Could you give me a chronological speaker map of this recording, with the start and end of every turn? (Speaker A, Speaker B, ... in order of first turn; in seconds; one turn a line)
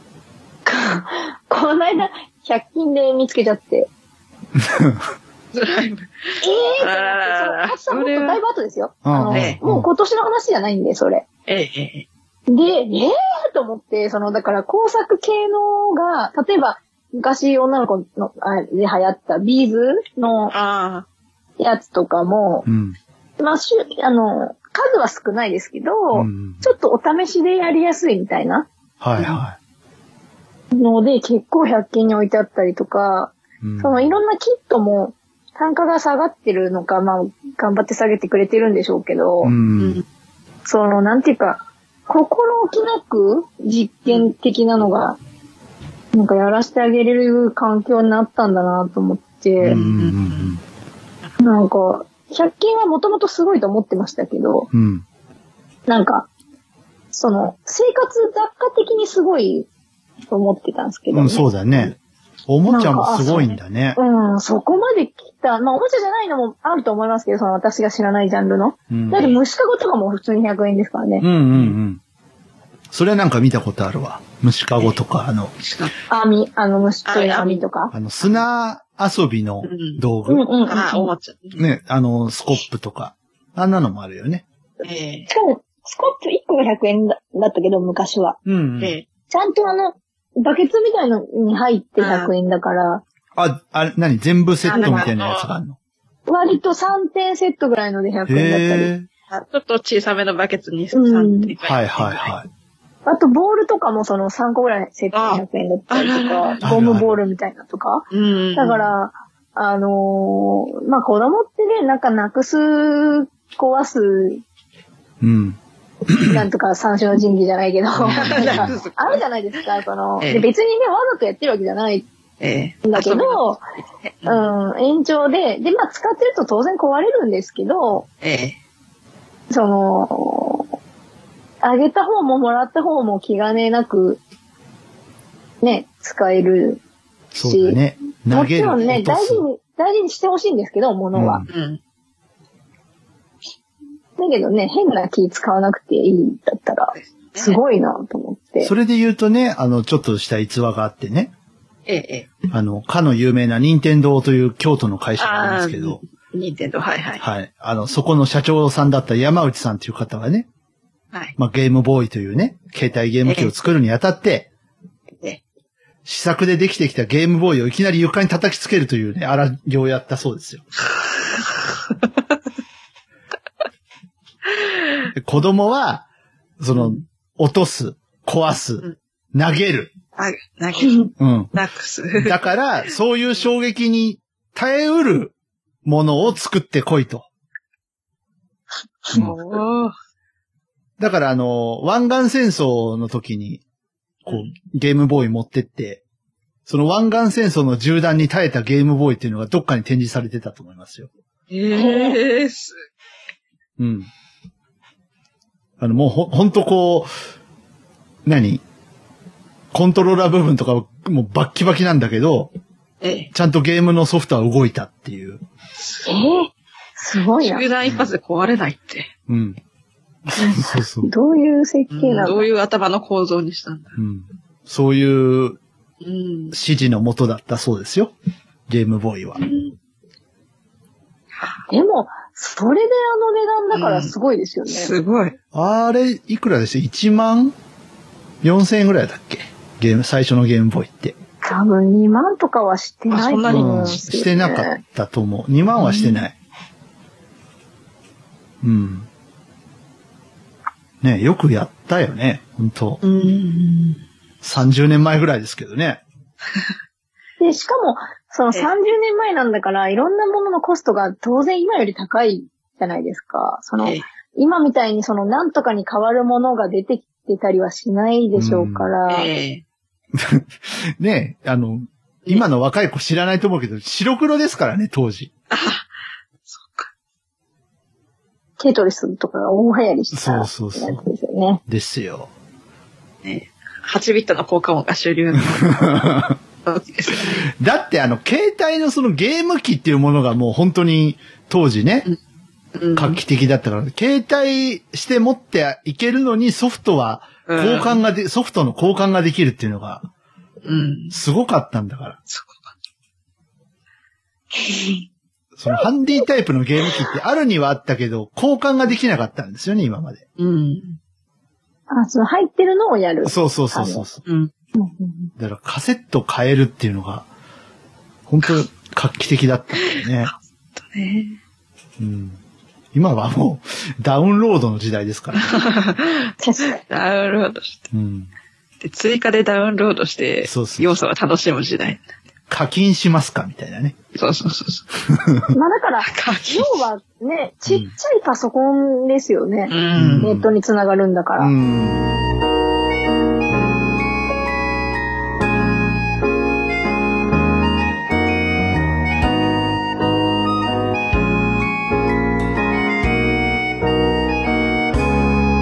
Speaker A: 0.7-3.9
Speaker B: 4.6-5.0
Speaker C: 5.5-8.4
Speaker A: 6.4-11.3
Speaker B: 9.1-9.9
Speaker C: 9.3-9.6
Speaker C: 11.5-12.1
Speaker A: 12.5-20.6
Speaker C: 20.5-21.1
Speaker A: 21.6-22.6
Speaker B: 22.6-23.0
Speaker A: 23.4-28.7
Speaker B: 26.1-26.7
Speaker B: 29.0-29.6
Speaker A: 30.7-39.5
Speaker B: 33.6-34.1
Speaker B: 39.4-40.0
Speaker C: 39.8-40.0
Speaker A: 40.6-45.2
Speaker A: 46.1-49.8
Speaker B: 49.6-50.6
Speaker C: 49.6-50.6
Speaker A: 51.4-54.7
Speaker B: 54.7-55.0
Speaker A: 55.9-56.3
Speaker A: 57.1-59.7
Speaker A: 60.3-61.9
Speaker B: 61.1-62.0
Speaker B: 62.5-64.0
Speaker A: 62.7-71.3
Speaker B: 68.9-69.3
Speaker B: 71.2-72.0
Speaker B: 72.9-75.5
Speaker C: 75.6-75.9
Speaker A: 76.1-77.9
Speaker C: 77.1-77.6
Speaker B: 77.9-80.5
Speaker C: 79.6-80.0
Speaker A: 80.3-81.1
Speaker C: 80.7-81.6
Speaker B: 81.6-84.5
Speaker C: 84.8-85.3
Speaker A: 85.3-88.4
Speaker B: 88.5-89.0
Speaker C: 88.8-89.1
Speaker A: 89.3-93.0
Speaker C: 92.0-92.3
Speaker B: 93.4-95.8
Speaker C: 94.7-95.5
Speaker A: 94.7-95.1
Speaker A: 96.3-98.9
Speaker B: 98.3-99.1
Speaker C: 99.3-102.3
Speaker A: 100.9-101.5
Speaker B: 101.6-102.5
Speaker A: 103.0-114.4
Speaker C: 105.1-106.6
Speaker B: 106.6-107.2
Speaker C: 108.1-108.9
Speaker B: 115.2-116.4
Speaker A: 116.2-122.1
Speaker B: 118.0-118.8
Speaker C: 118.1-119.2
Speaker C: 120.2-120.5
Speaker C: 122.4-123.5
Speaker A: 122.8-123.6
Speaker C: 124.0-124.5
Speaker A: 124.2-128.1
Speaker C: 128.2-128.6
Speaker A: 129.5-130.7
Speaker A: 131.6-134.2
Speaker A: 135.6-136.8
Speaker B: 137.3-139.4
Speaker A: 137.4-137.8
Speaker A: 138.3-141.5
Speaker B: 141.1-141.5
Speaker C: 141.5-141.8
Speaker A: 144.2-148.7
Speaker C: 146.9-147.6
Speaker B: 148.6-151.3
Speaker C: 151.9-152.3
Speaker B: 152.5-156.0
Speaker C: 155.2-157.2
Speaker B: 157.2-160.5
Speaker B: 161.4-164.5
Speaker C: 163.2-163.6
Speaker B: 166.1-170.6
Speaker C: 171.0-172.1
Speaker C: 174.6-175.1
Speaker B: 175.1-176.1
Speaker B: 176.6-179.9
Speaker C: 176.7-177.0
Speaker C: 180.2-182.5
Speaker B: 181.2-181.5
Speaker B: 182.2-187.3
Speaker C: 189.1-189.9
Speaker B: 191.0-193.6
Speaker B: 194.2-196.0
Speaker B: 196.7-201.1
Speaker C: 201.5-202.8
Speaker A: 201.7-202.2
Speaker B: 203.8-204.1
Speaker B: 205.8-207.1
Speaker B: 208.2-208.6
Speaker B: 209.7-212.5
Speaker C: 213.0-213.3
Speaker B: 213.3-215.4
Speaker A: 216.1-217.7
Speaker C: 217.4-219.1
Speaker B: 217.8-218.1
Speaker B: 219.3-219.6
Speaker B: 220.2-221.1
Speaker A: 220.4-222.5
Speaker C: 221.9-224.0
Speaker B: 224.0-225.6
Speaker C: 226.0-226.6
Speaker B: 226.5-228.1
Speaker B: 228.7-229.4
Speaker C: 229.4-229.7
Speaker A: 231.7-234.9
Speaker C: 233.7-234.1
Speaker C: 234.7-235.4
Speaker B: 235.5-237.5
Speaker B: 238.4-241.2
Speaker A: 241.4-244.8
Speaker C: 243.1-244.0
Speaker B: 243.5-246.3
Speaker C: 245.8-246.2
Speaker B: 248.6-249.1
Speaker B: 251.0-253.0
Speaker C: 253.0-254.0
Speaker B: 254.4-256.0
Speaker A: 257.4-269.3
Speaker B: 268.4-268.9
Speaker C: 269.1-269.6
Speaker B: 270.1-275.3
Speaker C: 275.5-275.9
Speaker C: 276.5-276.9
Speaker A: 278.6-281.6
Speaker B: 280.1-281.0
Speaker B: 281.7-282.3
Speaker C: 283.2-287.5
Speaker B: 285.5-286.4
Speaker B: 287.5-292.1
Speaker C: 292.8-293.2
Speaker B: 293.0-300.1
Speaker C: 297.5-298.0
Speaker C: 300.6-301.2
Speaker B: 301.1-302.2
Speaker C: 302.3-302.7
Speaker B: 305.6-310.2
Speaker C: 310.4-311.0
Speaker A: 311.9-314.1
Speaker B: 313.2-314.2
Speaker C: 314.3-314.5
Speaker A: 314.8-315.3
Speaker B: 315.4-317.3
Speaker B: 318.3-320.3
Speaker C: 319.8-321.4
Speaker B: 322.0-322.4
Speaker B: 322.9-325.6
Speaker C: 325.4-327.9
Speaker A: 326.4-326.8
Speaker B: 327.9-328.3
Speaker C: 328.8-332.1
Speaker B: 330.4-330.9
Speaker B: 332.5-334.0
Speaker C: 334.1-334.9
Speaker B: 335.1-335.5
Speaker A: 335.5-341.5
Speaker C: 336.0-336.8
Speaker B: 337.7-337.9
Speaker C: 339.7-340.3
Speaker B: 339.9-340.5
Speaker B: 341.4-342.2